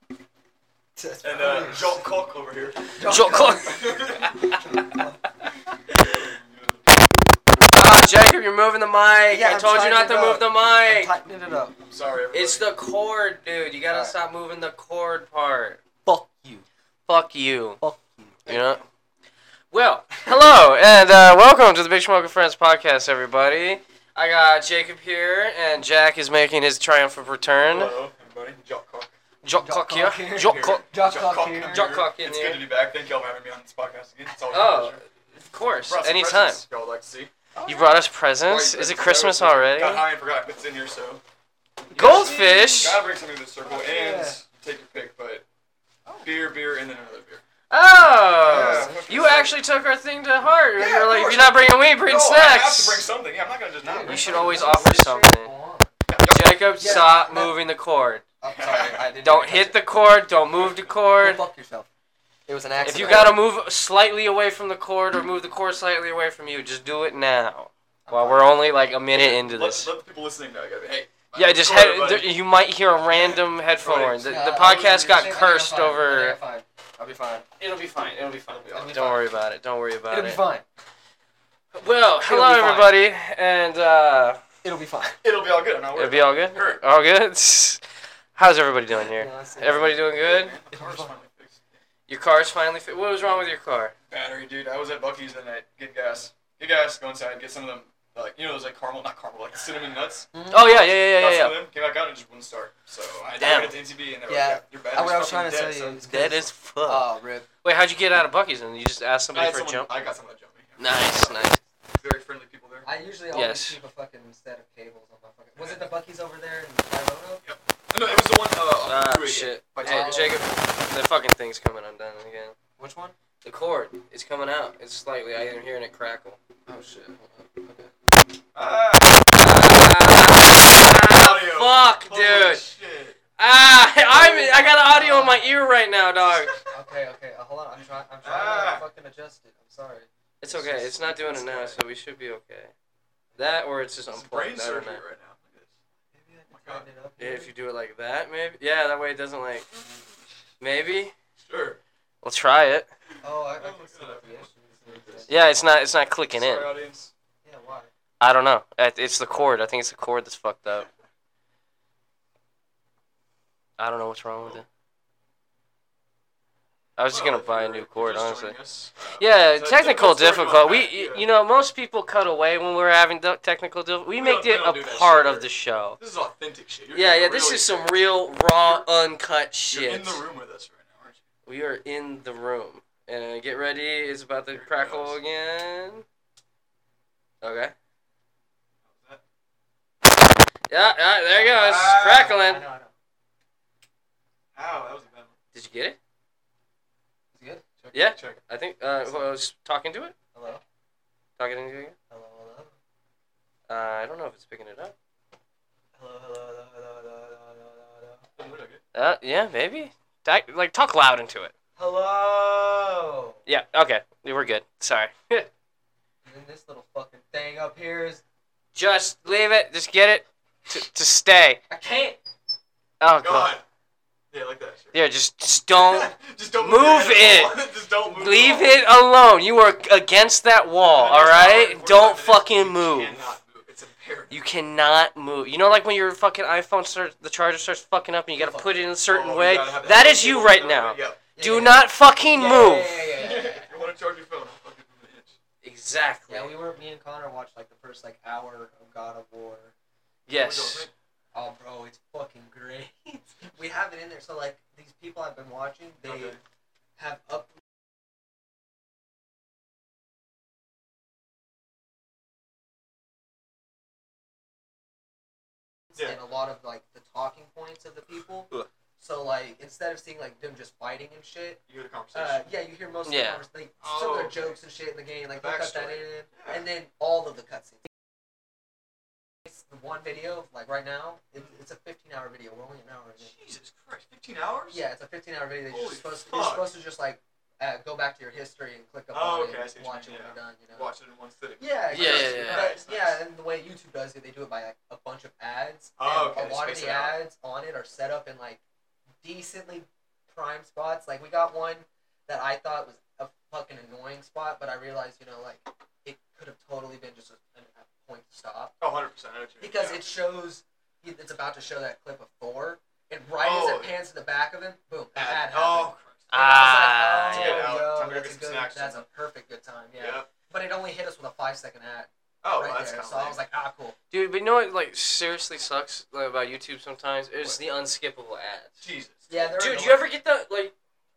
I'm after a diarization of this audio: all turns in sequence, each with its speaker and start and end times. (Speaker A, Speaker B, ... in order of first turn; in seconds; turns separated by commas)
Speaker A: 1.0-2.0, Speaker B: 1.2-2.9, Speaker A: 3.0-4.0, Speaker C: 3.0-5.0, Speaker B: 3.7-4.4, Speaker A: 4.6-5.2, Speaker B: 6.0-6.8, Speaker C: 7.7-11.1, Speaker A: 9.3-11.8, Speaker B: 11.9-12.7, Speaker C: 12.3-15.8, Speaker A: 13.9-14.1, Speaker A: 16.1-16.6, Speaker C: 17.1-17.8, Speaker A: 17.8-18.4, Speaker C: 18.4-18.8, Speaker B: 18.5-18.8, Speaker C: 19.7-27.9, Speaker B: 27.6-29.1, Speaker C: 29.4-30.8, Speaker A: 29.6-32.1, Speaker B: 30.4-35.0, Speaker C: 31.7-32.6, Speaker C: 34.5-36.6, Speaker B: 35.8-37.3, Speaker A: 37.5-37.9, Speaker C: 37.6-40.0, Speaker B: 38.5-41.2, Speaker C: 41.9-43.0, Speaker A: 41.9-42.9, Speaker B: 42.0-45.4, Speaker A: 43.6-44.4, Speaker B: 46.2-47.4, Speaker C: 47.7-53.0, Speaker B: 48.4-49.6, Speaker A: 48.4-49.4, Speaker B: 50.8-54.6, Speaker A: 53.8-56.0, Speaker C: 54.0-55.5, Speaker B: 56.1-57.1, Speaker C: 56.2-58.2, Speaker A: 56.8-57.5, Speaker A: 58.4-59.8, Speaker B: 58.5-59.2, Speaker C: 59.2-61.4, Speaker A: 61.2-61.9, Speaker A: 62.5-63.4, Speaker C: 62.8-69.9, Speaker A: 68.0-68.5, Speaker B: 69.1-72.3, Speaker C: 71.3-76.4, Speaker B: 73.1-75.0, Speaker A: 74.2-77.4, Speaker C: 77.6-80.4, Speaker B: 78.5-79.1, Speaker A: 78.7-79.2, Speaker A: 80.1-80.6, Speaker C: 81.7-84.5, Speaker A: 82.2-82.9, Speaker A: 84.6-85.2, Speaker B: 85.2-86.8, Speaker C: 85.9-87.8, Speaker C: 88.3-90.6, Speaker A: 89.0-90.0, Speaker B: 90.1-91.8, Speaker A: 90.7-91.1, Speaker C: 92.1-93.9, Speaker B: 94.1-106.0, Speaker A: 100.3-100.7, Speaker C: 100.5-101.6, Speaker C: 103.4-103.7, Speaker A: 104.3-107.5, Speaker C: 106.0-107.1, Speaker C: 107.6-109.9, Speaker B: 109.3-112.8, Speaker C: 110.8-111.6, Speaker A: 112.8-117.4, Speaker C: 113.3-113.8, Speaker B: 117.4-120.6, Speaker C: 118.8-122.5, Speaker A: 119.8-120.5, Speaker A: 122.8-123.1, Speaker C: 123.4-126.4, Speaker A: 126.7-127.9, Speaker B: 128.5-129.2, Speaker C: 129.3-132.6, Speaker B: 130.7-133.2, Speaker C: 133.4-136.6, Speaker A: 134.0-135.6, Speaker B: 136.3-136.6, Speaker A: 136.7-141.8, Speaker B: 138.2-138.8, Speaker C: 140.4-142.7, Speaker C: 143.4-145.0, Speaker B: 144.1-145.7, Speaker A: 146.1-147.5, Speaker B: 146.5-146.9, Speaker C: 147.2-149.7, Speaker C: 150.6-151.1, Speaker B: 151.4-151.8, Speaker C: 152.2-152.9, Speaker A: 153.2-155.5, Speaker B: 153.6-155.3, Speaker C: 155.3-156.7, Speaker B: 156.3-157.1, Speaker A: 157.4-157.9, Speaker C: 158.2-160.9, Speaker C: 163.8-164.7, Speaker C: 167.0-168.6, Speaker B: 167.1-171.2, Speaker C: 169.2-176.0, Speaker B: 174.1-175.5, Speaker B: 176.0-177.9, Speaker C: 176.9-180.2, Speaker B: 178.6-178.9, Speaker B: 179.7-181.2, Speaker C: 181.4-186.0, Speaker B: 184.5-185.2, Speaker C: 187.4-187.7, Speaker B: 188.8-189.2, Speaker C: 190.7-192.6, Speaker A: 191.3-192.9, Speaker B: 191.5-192.4, Speaker B: 194.5-195.3, Speaker C: 195.5-196.0, Speaker A: 197.3-197.8, Speaker B: 197.8-198.4, Speaker C: 197.9-200.1, Speaker A: 200.3-200.6, Speaker C: 201.4-201.9, Speaker A: 202.1-202.7, Speaker C: 203.7-204.9, Speaker A: 205.9-208.2, Speaker B: 208.4-208.8, Speaker C: 208.9-211.5, Speaker A: 211.8-213.4, Speaker C: 213.4-215.5, Speaker A: 216.2-218.2, Speaker C: 218.7-221.6, Speaker A: 221.7-222.2, Speaker C: 223.0-223.5, Speaker B: 223.2-223.6, Speaker B: 224.3-225.0, Speaker C: 224.9-227.6, Speaker B: 225.7-228.8, Speaker C: 228.1-233.2, Speaker B: 230.8-234.4, Speaker C: 234.3-243.1, Speaker A: 238.3-238.9, Speaker B: 239.1-241.2, Speaker A: 241.3-243.7, Speaker B: 243.1-245.3, Speaker C: 245.6-246.5, Speaker A: 246.3-249.7, Speaker C: 250.3-250.9, Speaker B: 250.3-250.9, Speaker A: 251.3-256.4, Speaker B: 256.0-256.4, Speaker A: 257.0-257.6, Speaker A: 265.9-271.6, Speaker B: 271.7-272.4, Speaker A: 272.1-277.8, Speaker C: 273.1-273.4, Speaker B: 273.8-274.6, Speaker B: 275.4-276.6, Speaker A: 279.4-283.3, Speaker B: 283.2-284.8, Speaker A: 284.7-290.9, Speaker B: 285.7-286.7, Speaker B: 289.1-293.2, Speaker A: 291.6-298.6, Speaker C: 291.9-292.7, Speaker B: 296.0-297.2, Speaker A: 299.2-308.7, Speaker B: 308.8-310.0, Speaker A: 309.6-323.9, Speaker B: 313.4-314.0, Speaker B: 315.1-316.3, Speaker C: 316.3-317.7, Speaker B: 317.3-319.0, Speaker B: 320.0-320.3, Speaker B: 322.4-323.4, Speaker C: 324.1-328.8, Speaker B: 328.8-329.4, Speaker A: 329.3-330.1, Speaker C: 329.5-330.7